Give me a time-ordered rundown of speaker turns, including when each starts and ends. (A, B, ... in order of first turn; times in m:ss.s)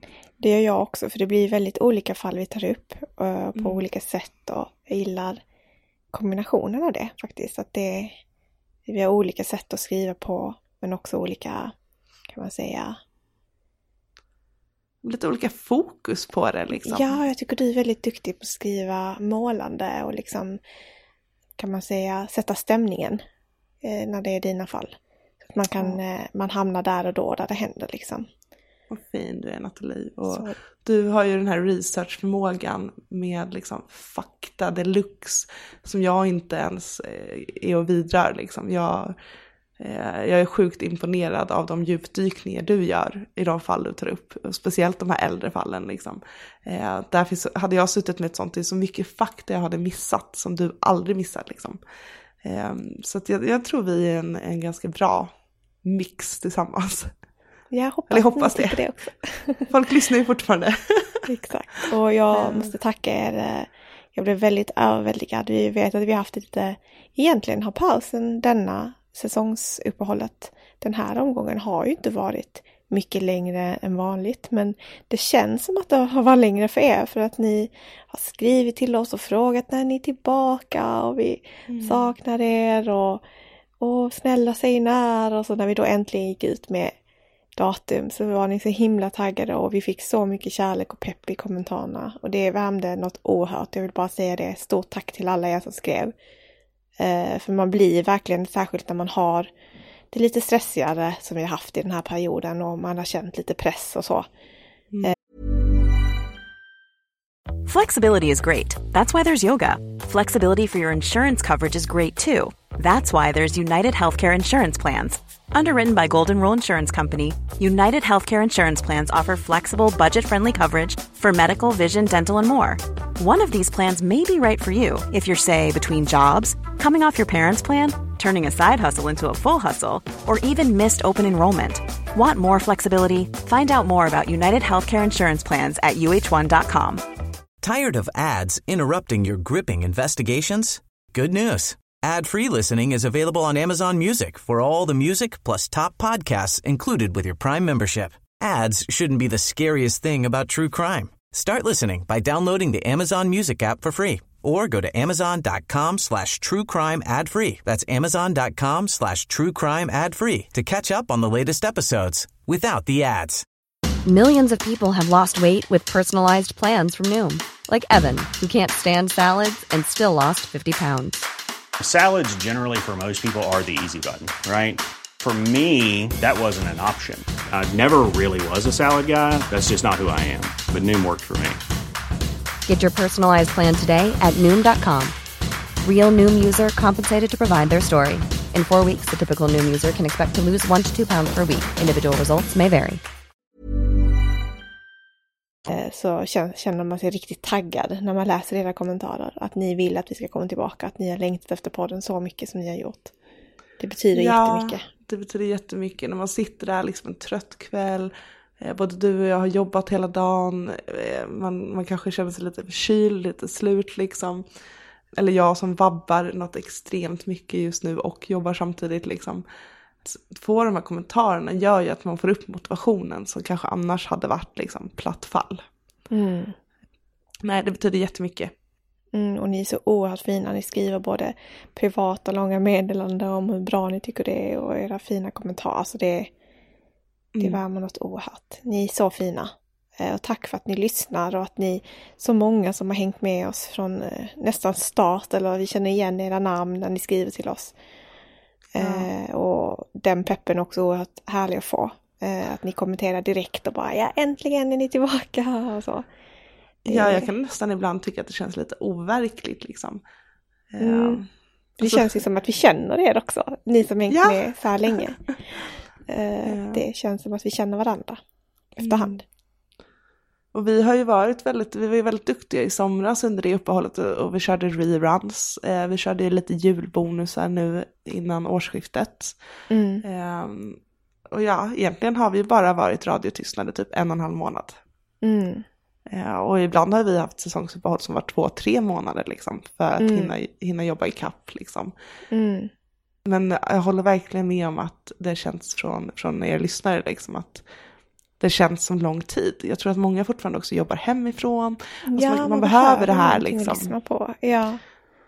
0:00.4-0:05.4 A
0:03.6-0:03.8 B
0:06.1-0:08.2 A
0:08.9-0:11.7 A
0:12.3-0:13.0 A
0:15.0-0:17.2 B
0:16.8-0:20.6 A
0:21.6-0:23.2 A
0:23.8-0:28.3 A
0:28.9-0:39.1 B
0:30.3-0:30.6 A
0:39.8-0:51.8 B
0:52.4-0:55.3 B
0:55.8-0:57.1 B
0:57.7-0:59.7 A
0:58.1-0:58.8 B
0:59.7-1:01.3 B
1:01.3-1:23.2 A
1:01.8-1:02.7 B
1:21.7-1:22.1 B
1:23.8-1:26.9 A
1:27.6-1:36.1 A
1:37.0-1:39.5 A
1:40.1-1:44.3 A
1:47.7-2:17.0 C
2:17.6-2:43.4 D
2:44.0-2:51.3 E
2:51.8-3:01.6 F
3:02.7-3:05.2 E
3:05.8-3:13.0 E
3:15.7-3:23.1 A
3:23.8-3:24.8 A
3:24.1-3:34.4 B
3:35.2-3:39.4 B
3:40.0-3:45.6 B
3:46.1-3:46.6 A
3:47.4-3:48.5 B
3:49.1-3:56.3 A
3:57.3-3:57.6 B
3:57.4-4:07.7 A
4:08.8-4:16.1 A
4:08.8-4:09.1 B
4:16.9-4:20.0 B
4:16.9-4:17.3 A
4:20.7-4:21.3 B
4:20.8-4:21.2 A
4:21.8-4:25.3 A
4:21.8-4:22.2 B
4:24.1-4:25.0 B
4:26.1-4:28.2 A
4:26.5-4:26.8 B
4:28.8-4:29.2 A
4:28.8-4:29.2 B
4:30.5-4:39.4 B
4:39.7-4:40.0 A
4:40.0-4:40.8 B
4:41.3-4:44.8 B
4:45.2-4:45.7 A
4:46.1-4:51.9 B
4:50.0-4:50.4 A
4:52.3-4:52.7 A
4:53.3-4:57.6 B
4:58.4-5:03.9 B
5:02.0-5:04.8 A